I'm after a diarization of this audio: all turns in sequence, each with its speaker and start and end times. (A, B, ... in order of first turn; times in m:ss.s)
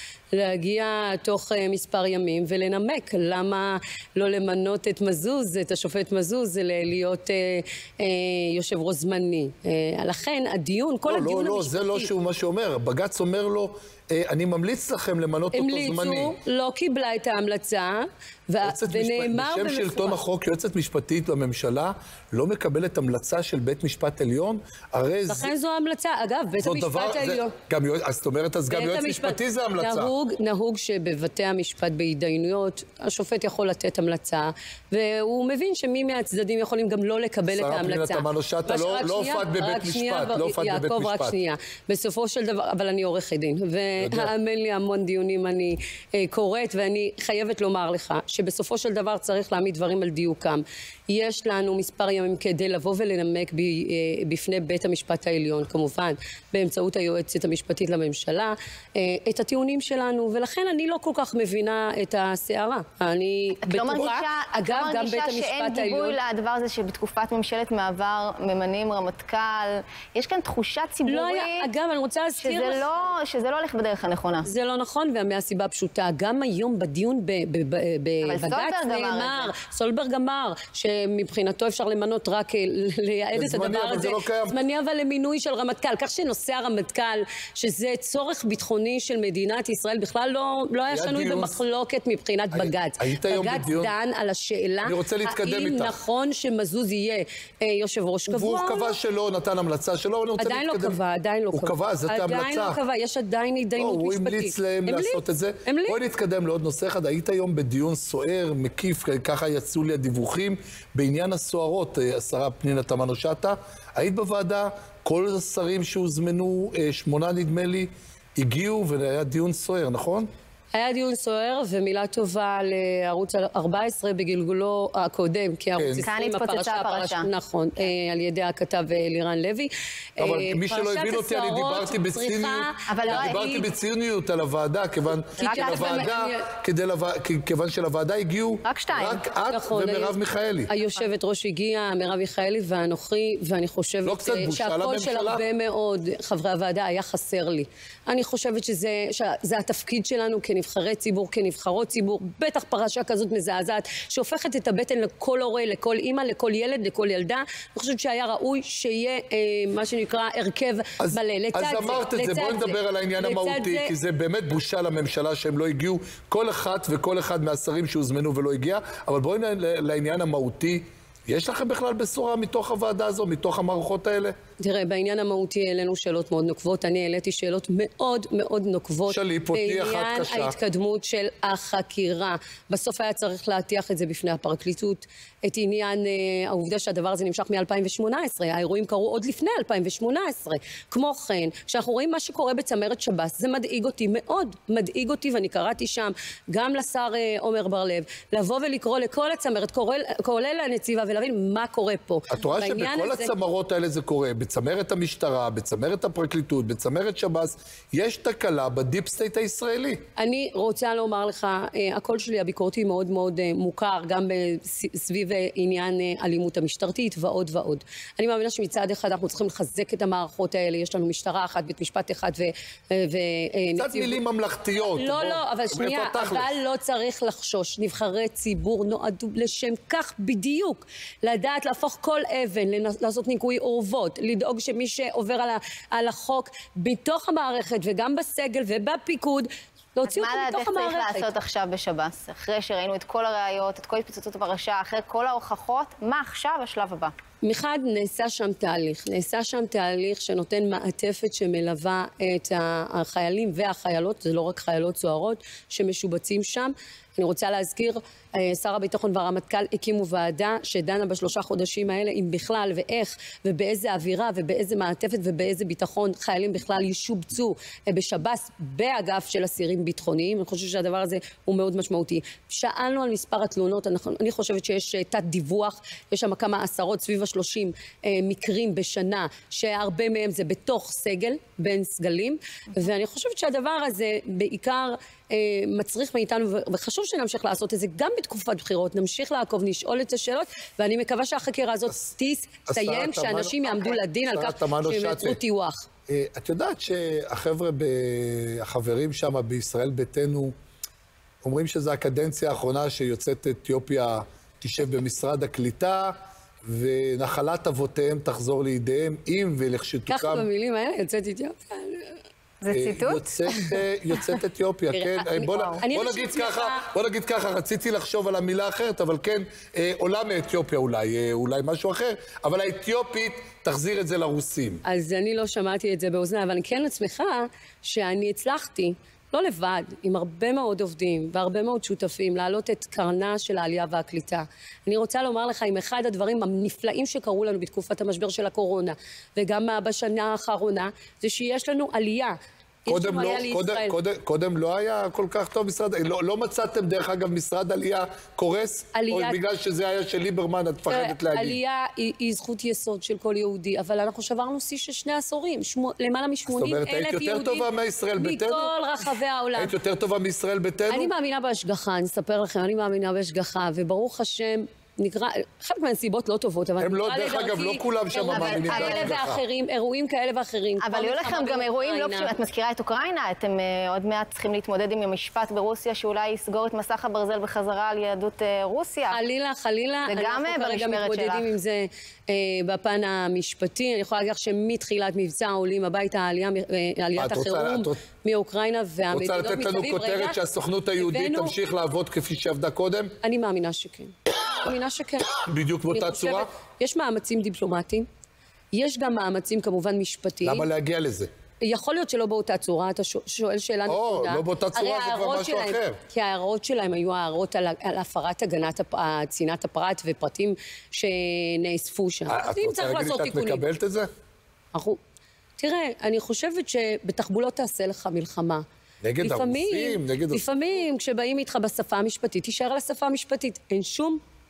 0:00.3-0:12.1 A
0:11.1-0:16.4 B
0:15.5-0:20.2 A
0:18.6-0:25.5 B
0:25.3-0:27.5 A
0:26.6-0:30.1 B
0:28.7-1:06.2 A
0:37.5-0:41.3 B
0:44.0-0:44.3 B
1:03.6-1:11.7 C
1:11.0-1:12.8 A
1:12.4-1:14.5 C
1:14.4-1:38.9 A
1:18.2-1:19.5 C
1:23.3-1:24.6 B
1:30.9-1:31.6 B
1:32.5-1:33.9 B
1:34.8-1:36.0 B
1:38.3-1:41.0 B
1:40.4-1:46.0 A
1:41.5-1:42.8 B
1:43.8-2:00.3 B
2:00.7-2:13.6 A
2:05.8-2:06.1 B
2:06.0-2:07.3 C
2:10.2-2:20.7 B
2:12.9-2:13.6 C
2:15.4-2:16.1 C
2:15.4-2:16.5 A
2:18.6-2:19.2 C
2:19.5-2:43.9 A
2:24.0-2:25.4 B
2:41.0-2:54.3 B
2:54.6-3:23.3 A
2:59.1-3:00.5 B
3:22.3-3:30.0 B
3:30.2-3:44.2 A
3:43.8-3:46.5 B
3:44.8-4:01.3 A
4:00.0-4:07.1 C
4:07.4-4:55.8 A
4:52.7-4:55.4 B
4:56.1-5:00.5 B
5:01.4-5:10.5 B
5:10.1-5:12.2 A
5:12.6-5:13.6 C
5:12.7-5:24.8 B
5:14.9-5:16.8 A
5:15.5-5:15.8 C
5:24.8-5:42.3 A
5:42.8-5:44.0 A
5:42.9-5:51.6 B
5:48.9-5:49.4 A
5:50.9-5:59.7 A
5:56.5-5:58.7 B
5:59.6-6:01.1 B
6:00.9-6:12.3 A
6:06.8-6:09.4 B
6:08.2-6:09.3 C
6:10.8-6:19.2 C
6:19.1-6:30.4 A
6:20.1-6:21.5 C
6:27.2-6:28.0 B
6:29.1-6:33.1 B
6:31.0-6:31.6 A
6:33.2-6:35.3 A
6:35.3-6:36.5 B
6:35.9-6:38.0 A
6:38.7-6:40.7 A
6:40.4-6:41.3 B
6:41.6-6:53.6 A
6:43.8-6:46.0 B
6:52.3-6:54.1 B
6:54.7-6:55.0 A
6:55.6-6:58.6 A
6:59.0-7:00.4 B
6:59.2-7:04.2 A